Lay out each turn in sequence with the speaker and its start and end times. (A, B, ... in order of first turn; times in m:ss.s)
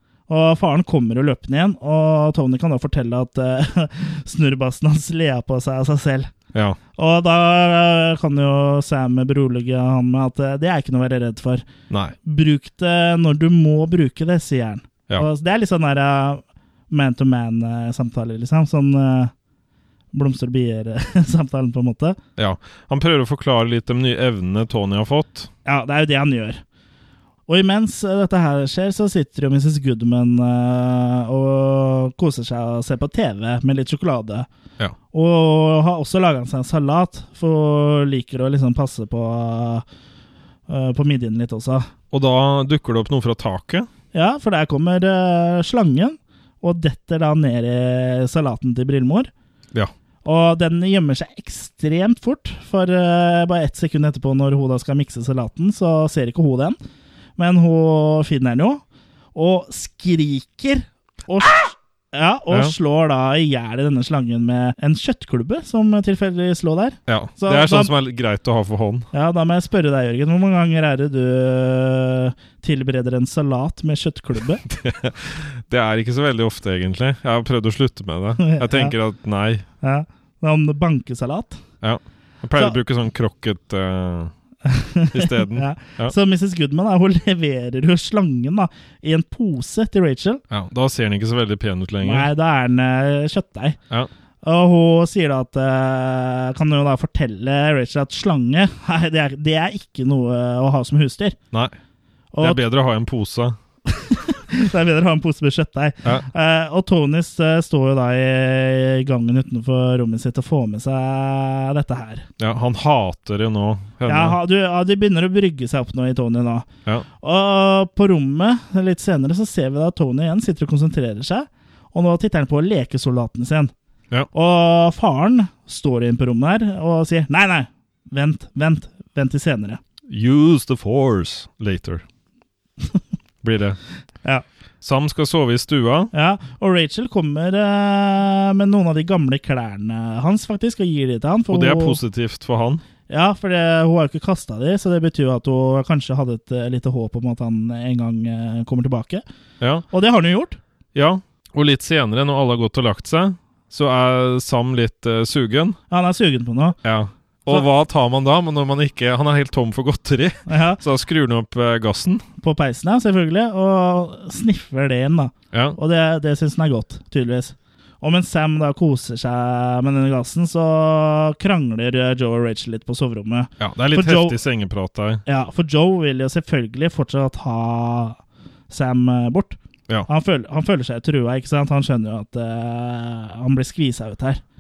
0:00.3-0:06.3 A
0:07.0-0:11.7 A
0:11.9-0:12.2 B
0:12.2-0:19.3 A
0:20.1-0:22.2 A
0:22.4-0:25.5 B
0:25.6-0:26.6 A
0:27.5-0:34.5 A
0:35.1-0:39.8 A
0:40.7-0:41.9 A
0:42.1-0:43.9 B
0:44.1-0:49.3 A
0:50.2-0:56.8 A
0:57.4-0:58.8 A
0:59.4-1:07.9 A
1:07.1-1:09.1 B
1:09.1-1:14.6 A
1:14.6-1:19.6 B
1:18.4-1:18.9 A
1:19.8-1:21.6 A
1:21.8-1:24.3 B
1:24.6-1:30.4 A
1:25.1-1:26.1 B
1:30.5-1:32.3 B
1:32.0-1:33.8 A
1:34.4-1:41.4 A
1:42.3-1:42.6 A
1:42.4-1:43.6 B
1:43.9-1:52.3 A
1:52.4-1:54.4 B
1:54.1-1:56.7 A
1:57.2-2:03.7 A
2:04.3-2:09.8 A
2:10.1-2:12.0 B
2:13.4-2:13.8 B
2:14.8-2:16.1 B
2:16.1-2:22.0 A
2:21.5-2:22.8 B
2:23.1-2:29.2 A
2:29.9-2:30.6 A
2:31.0-2:35.8 B
2:35.9-2:36.8 A
2:36.8-2:42.2 B
2:40.5-2:40.8 A
2:42.4-2:54.4 A
2:45.5-2:45.8 B
2:53.6-2:55.2 B
2:55.3-2:58.2 A
2:58.7-3:04.4 A